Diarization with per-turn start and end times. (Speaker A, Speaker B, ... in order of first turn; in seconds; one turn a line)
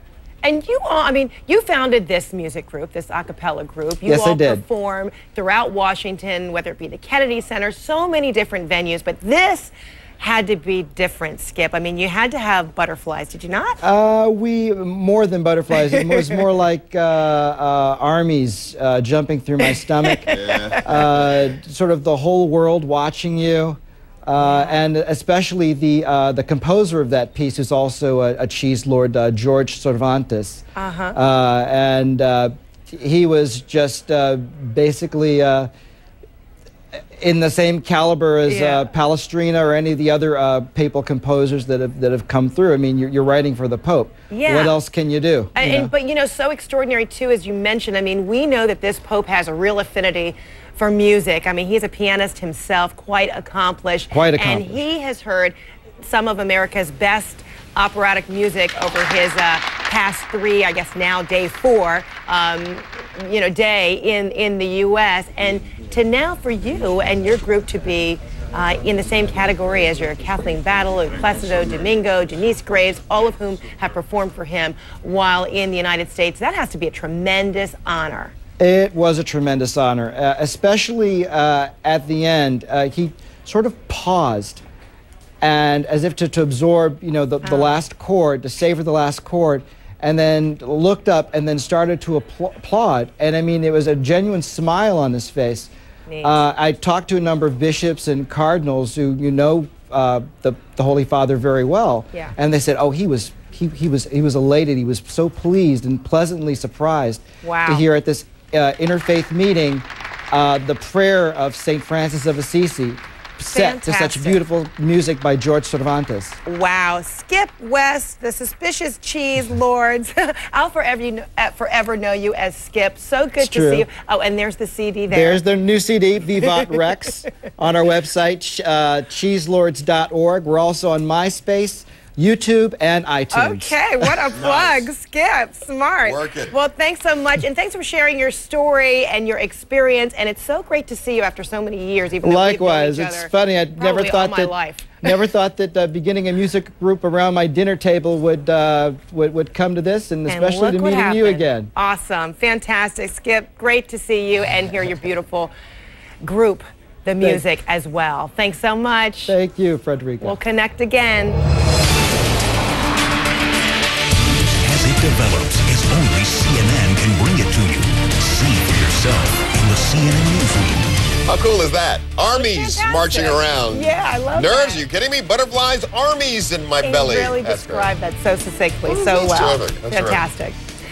Speaker A: 0.4-13.8
Speaker B: 4.0-4.6
Speaker B: 13.8-35.7
Speaker A: 20.0-20.9
Speaker C: 20.4-20.8
Speaker A: 24.4-24.8
Speaker A: 30.8-31.2
Speaker B: 37.2-45.9
Speaker A: 38.5-38.9
Speaker A: 44.3-44.8
Speaker A: 45.5-78.3
Speaker B: 54.1-54.8
Speaker B: 78.6-84.6
Speaker B: 85.4-95.7
Speaker A: 87.4-87.8
Speaker A: 96.1-96.4
Speaker B: 96.2-116.4
Speaker A: 107.4-107.8
Speaker A: 113.5-114.4
Speaker A: 116.4-125.4
Speaker B: 123.4-123.9
Speaker B: 125.1-134.1
Speaker A: 133.3-145.1
Speaker C: 134.3-134.8
Speaker C: 136.0-136.5
Speaker B: 142.2-151.7
Speaker A: 150.3-155.5
Speaker A: 156.2-159.3
Speaker B: 159.3-160.4
Speaker A: 160.2-161.4
Speaker D: 164.3-170.9
Speaker C: 171.2-177.9
Speaker A: 172.3-174.8
Speaker A: 176.8-180.6
Speaker C: 178.9-180.2